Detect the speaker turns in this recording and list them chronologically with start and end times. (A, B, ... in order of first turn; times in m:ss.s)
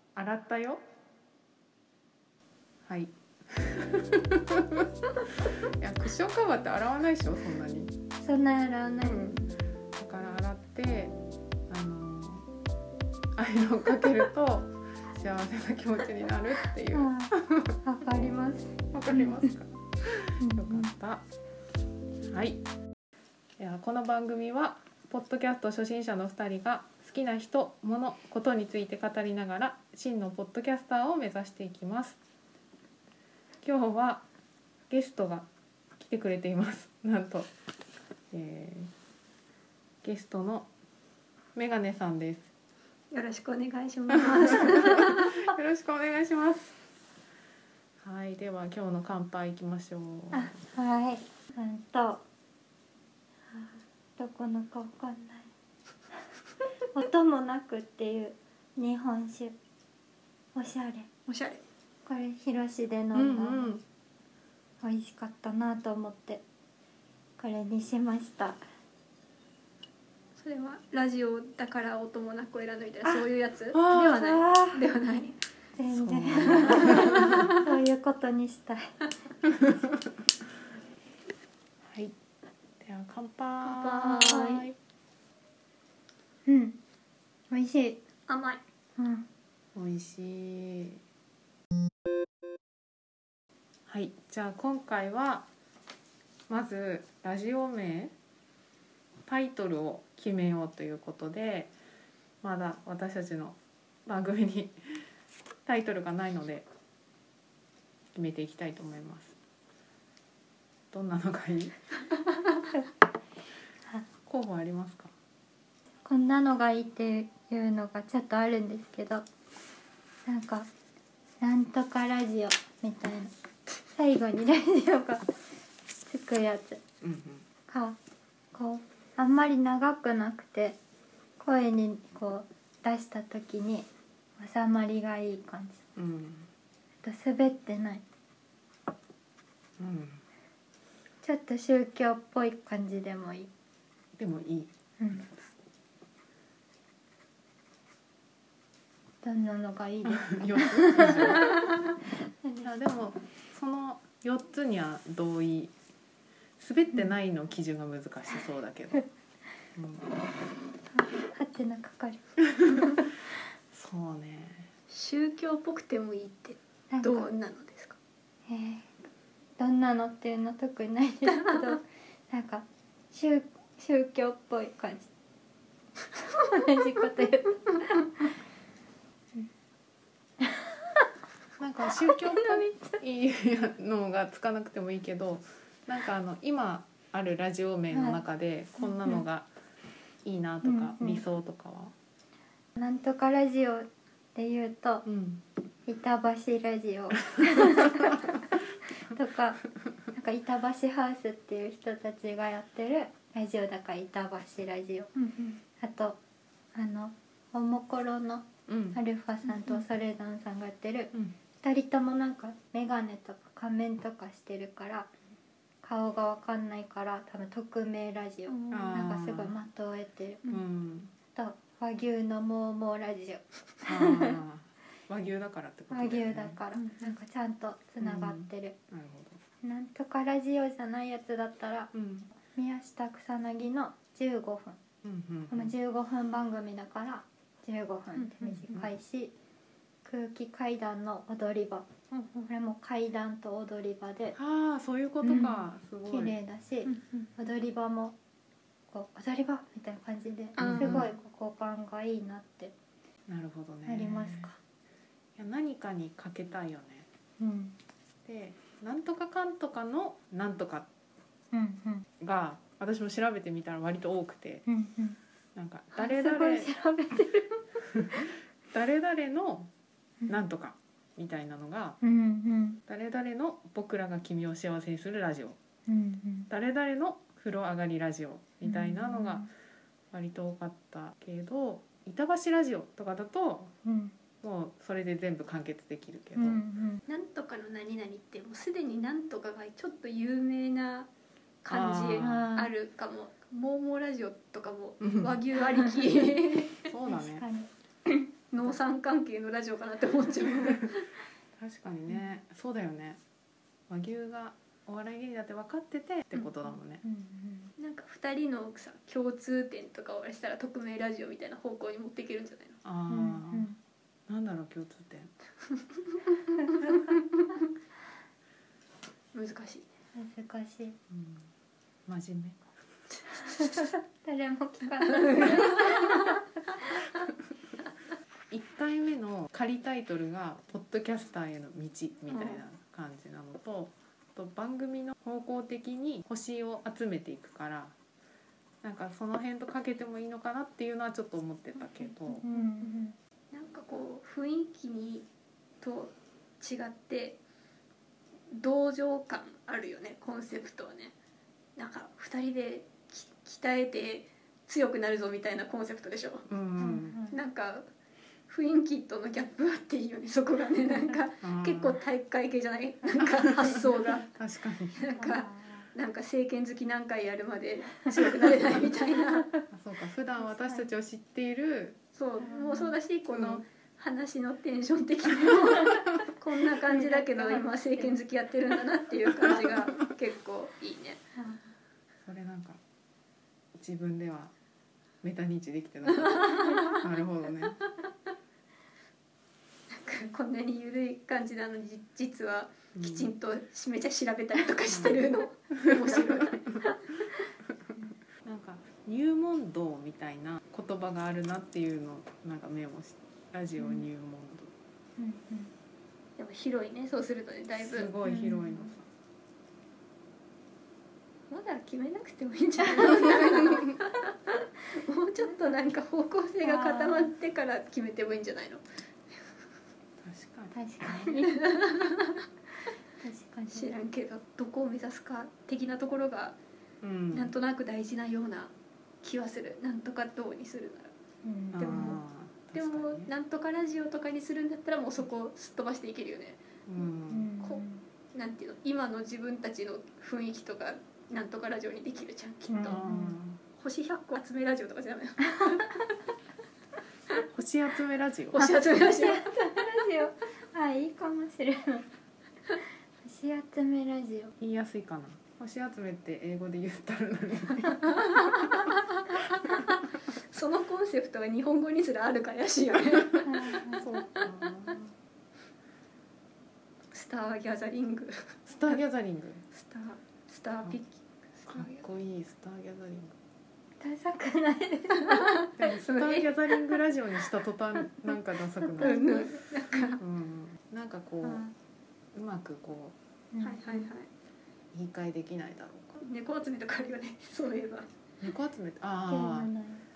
0:00.1-0:00.8 A
0:02.8-0:04.8 A
0:05.8-0:07.9 A
0:08.2-0:09.5 B
0:09.0-0:09.4 A
0:10.0-0:11.1 A
0:11.7-0:12.5 A
0:13.4-0:17.7 A
0:16.9-0:17.3 B
0:17.8-0:19.3 B
0:18.9-0:21.2 A
0:20.4-0:20.9 B
0:22.3-0:22.6 A
0:23.6-0:32.2 A
0:33.6-0:34.2 A
0:34.9-0:35.5 A
0:36.0-0:37.5 A
0:38.3-0:38.9 A
0:40.0-0:40.7 A
0:41.6-0:42.5 A
0:43.1-0:45.5 C
0:44.1-0:46.8 A
0:48.0-0:50.5 A
0:50.3-0:52.2 B
0:53.5-0:55.5 B
0:56.9-0:59.5 B
1:00.5-1:01.1 B
1:01.3-1:01.6 C
1:02.0-1:03.7 B
1:03.1-1:03.8 A
1:04.8-1:06.4 B
1:07.4-1:08.6 B
1:10.4-1:15.3 C
1:13.7-1:14.2 A
1:13.9-1:14.9 B
1:15.8-1:18.9 B
1:15.9-1:17.4 A
1:16.5-1:17.6 C
1:21.8-1:22.1 A
1:22.8-1:24.7 A
1:23.6-1:24.7 C
1:26.4-1:26.8 B
1:27.5-1:28.0 B
1:28.3-1:28.6 C
1:29.0-1:29.2 B
1:29.7-1:31.0 A
1:33.9-1:35.4 A
1:36.5-1:38.1 A
1:39.3-1:41.7 A
1:42.4-1:44.8 A
1:45.6-1:46.6 A
1:48.1-1:49.3 A
1:50.9-1:51.8 A
1:54.2-1:55.1 A
1:56.0-1:59.2 B
2:00.2-2:00.7 B
2:01.4-2:03.3 B
2:03.9-2:05.4 B
2:06.0-2:06.8 B
2:07.0-2:07.4 A
2:07.7-2:08.0 B
2:08.5-2:10.8 B
2:11.4-2:13.9 B
2:14.4-2:15.8 B
2:15.9-2:16.5 A
2:17.0-2:18.0 B
2:19.8-2:20.2 A
2:21.2-2:23.5 B
2:24.2-2:25.4 A
2:25.0-2:25.3 B
2:29.2-2:31.6 B
2:30.1-2:31.6 A
2:32.4-2:32.8 B
2:32.6-2:35.7 A
2:36.6-2:39.0 A
2:39.7-2:40.2 A
2:40.9-2:43.0 B
2:43.7-2:44.7 A
2:44.9-2:48.0 C
2:46.9-2:47.3 B
2:48.5-2:49.0 B
2:49.6-2:55.1 B
2:51.2-2:51.8 C
2:56.4-2:58.3 B
3:01.6-3:09.5 A
3:07.9-3:08.2 B
3:10.2-3:11.9 A
3:10.6-3:11.2 B
3:12.8-3:15.0 B
3:15.0-3:15.4 A
3:15.8-3:18.4 B
3:17.8-3:18.2 A
3:19.1-3:19.6 B
3:20.1-3:26.2 B
3:25.2-3:25.5 C
3:26.7-3:35.1 B
3:28.7-3:29.0 A
3:35.8-3:40.6 B
3:38.7-3:39.5 A
3:40.5-3:41.1 A
3:41.3-3:44.4 B
3:43.8-3:46.6 A
3:45.9-3:48.7 B
3:46.8-3:47.1 C
3:48.0-3:49.4 A
3:49.6-3:51.9 B
3:51.9-3:52.3 A
3:52.5-3:54.8 B
3:55.0-3:55.7 A
3:55.5-3:59.3 B
3:58.1-3:58.8 C
4:00.0-4:04.4 B
4:04.3-4:06.3 A
4:05.2-4:08.1 B
4:06.8-4:07.3 C
4:08.9-4:12.7 B
4:10.6-4:11.1 C
4:10.6-4:11.1 A
4:13.3-4:14.5 A
4:13.8-4:14.6 B
4:15.4-4:17.0 A
4:17.4-4:17.8 B
4:18.2-4:20.9 A
4:21.5-4:22.0 B
4:22.2-4:24.6 A
4:24.6-4:25.2 B
4:25.5-4:26.7 A
4:25.9-4:27.6 B
4:28.7-4:29.7 A
4:30.3-4:32.0 A
4:32.0-4:32.8 B
4:32.8-4:35.6 A
4:35.9-4:36.5 B
4:36.5-4:39.5 A
4:38.6-4:39.5 B
4:40.1-4:43.7 A
4:43.8-4:44.1 B
4:44.4-4:46.6 A
4:46.3-4:47.0 B
4:47.1-4:51.1 C
4:51.6-4:56.9 C
4:51.7-4:52.5 A
4:52.2-4:52.7 B
4:55.0-4:55.3 A
4:56.9-4:57.4 A
4:57.1-4:57.7 B
4:58.5-5:01.1 C
5:01.6-5:03.2 A
5:03.9-5:07.0 A
5:07.0-5:07.7 B
5:07.8-5:12.8 C
5:12.8-5:13.7 A
5:13.1-5:13.8 B
5:14.3-5:15.3 A
5:15.7-5:17.6 C
5:16.8-5:17.2 B
5:19.3-5:19.8 C
5:20.1-5:21.0 B
5:21.1-5:21.5 A
5:22.1-5:22.6 A
5:23.3-5:23.9 C
5:23.7-5:26.4 B
5:25.0-5:26.4 C
5:28.5-5:37.9 A
5:32.3-5:32.6 C
5:38.8-5:42.4 A
5:42.3-5:43.2 B
5:42.4-5:43.0 C
5:43.5-5:45.3 C
5:45.8-5:47.4 C
5:48.5-5:51.1 C
5:51.8-5:56.5 C
5:56.5-5:57.2 A
5:56.8-5:57.4 B
5:57.3-5:57.8 C
5:58.5-6:04.3 C
6:00.8-6:01.2 B
6:01.4-6:02.0 A
6:03.2-6:05.0 A
6:05.0-6:09.5 C
6:05.1-6:05.9 B
6:09.7-6:12.0 A
6:10.5-6:10.9 B
6:12.1-6:21.2 C
6:12.4-6:13.0 B
6:13.3-6:13.6 A
6:16.8-6:18.2 B
6:21.4-6:21.6 B
6:22.2-6:22.8 A
6:23.7-6:24.5 A
6:25.2-6:27.8 A
6:26.0-6:27.0 C
6:26.6-6:27.0 B
6:30.0-6:37.2 C
6:32.9-6:33.3 A
6:34.9-6:35.2 A
6:35.7-6:36.2 A
6:38.4-6:44.7 A
6:43.8-6:44.1 B
6:45.2-6:45.7 B
6:46.4-6:48.1 C
6:47.8-6:49.1 A
6:48.2-6:48.9 B
6:51.5-6:58.8 C
6:56.6-6:57.3 B
7:00.2-7:01.3 A
7:00.7-7:01.8 B
7:01.3-7:02.4 C
7:03.2-7:03.9 B
7:03.7-7:06.6 C
7:07.0-7:07.5 A
7:07.3-7:11.1 C
7:11.4-7:12.2 B
7:11.7-7:13.3 A
7:11.8-7:12.2 C
7:12.7-7:16.6 C
7:16.9-7:17.5 A
7:17.3-7:18.0 B
7:18.3-7:23.1 C
7:22.7-7:23.4 B
7:22.8-7:23.6 A
7:23.8-7:26.1 C
7:27.5-7:28.7 A
7:28.5-7:29.4 C
7:28.6-7:32.1 B
7:33.2-7:34.5 B
7:34.6-7:37.9 A
7:38.0-7:43.6 C
7:43.4-7:44.0 B
7:43.9-7:45.1 A
7:47.1-7:48.5 C
7:48.7-7:49.6 A
7:49.7-7:52.1 C
7:51.7-7:53.4 A
7:54.0-7:55.5 B
7:55.4-7:56.5 C
7:55.8-7:59.4 A
7:58.9-8:00.2 B
7:59.0-8:00.2 C
8:00.2-8:01.7 A
8:01.4-8:01.7 B
8:02.3-8:03.2 A
8:03.5-8:04.1 B
8:03.6-8:04.3 C
8:04.9-8:06.2 A
8:06.2-8:08.0 C
8:08.4-8:09.7 A
8:09.3-8:10.0 B